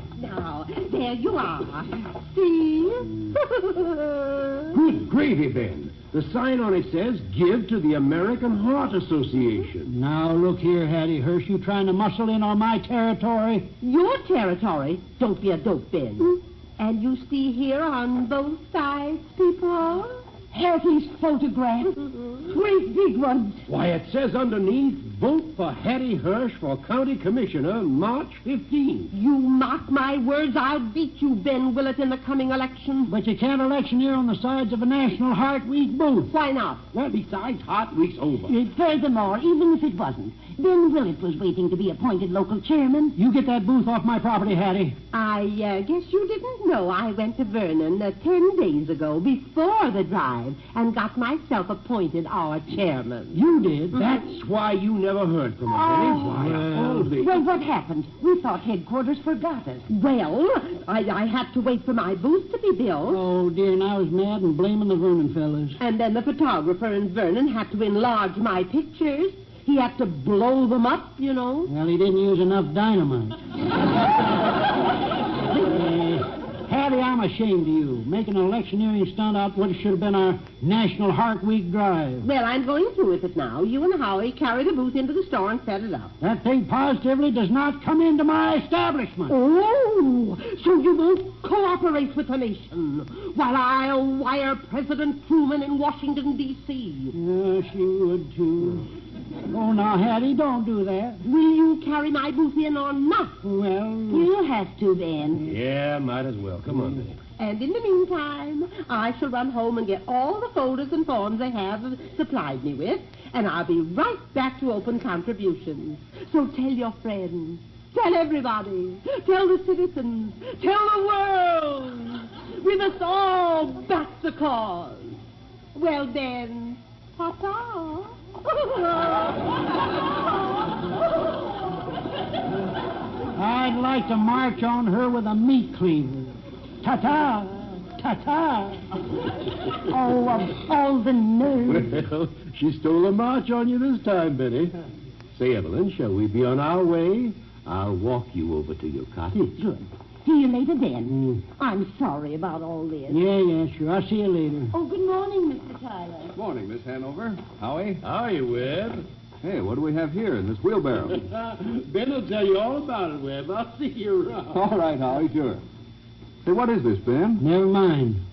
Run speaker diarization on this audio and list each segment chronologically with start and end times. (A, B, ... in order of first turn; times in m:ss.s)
0:00.2-0:04.8 A
0:04.7-0:09.9 B
0:09.9-0:13.7 C
0:13.8-0:20.2 A
0:20.5-0:23.6 D
0:23.7-0:29.1 B
0:29.1-0:33.1 A
0:33.1-0:36.3 C
0:36.3-0:36.8 A
0:36.9-0:38.6 B
0:38.5-0:43.2 D
0:43.2-0:45.0 C
0:45.1-0:53.4 A
0:53.3-0:54.2 C
0:54.1-0:57.4 B
0:55.7-0:59.9 D
0:56.6-0:57.1 C
0:59.9-1:03.2 A
1:03.1-1:05.8 C
1:05.8-1:11.7 A
1:11.7-1:13.4 C
1:15.5-1:22.3 C
1:22.2-1:26.1 A
1:26.2-1:29.4 C
1:29.3-1:37.2 A
1:37.1-1:38.9 C
1:39.5-1:41.2 C
1:41.2-1:43.4 A
1:43.4-1:44.3 C
1:44.1-1:45.5 D
1:45.4-1:47.2 B
1:47.4-2:05.2 A
2:05.8-2:10.0 A
2:13.4-2:18.8 C
2:19.8-2:21.9 D
2:21.6-2:24.8 B
2:25.4-2:29.5 B
2:29.4-2:33.2 D
2:31.1-2:31.4 C
2:33.1-2:34.7 C
2:34.7-2:36.3 D
2:36.3-2:38.0 E
2:38.0-2:39.1 B
2:39.4-2:41.2 E
2:41.3-2:44.6 B
2:44.5-2:45.6 E
2:46.4-2:47.4 E
2:47.4-2:48.2 C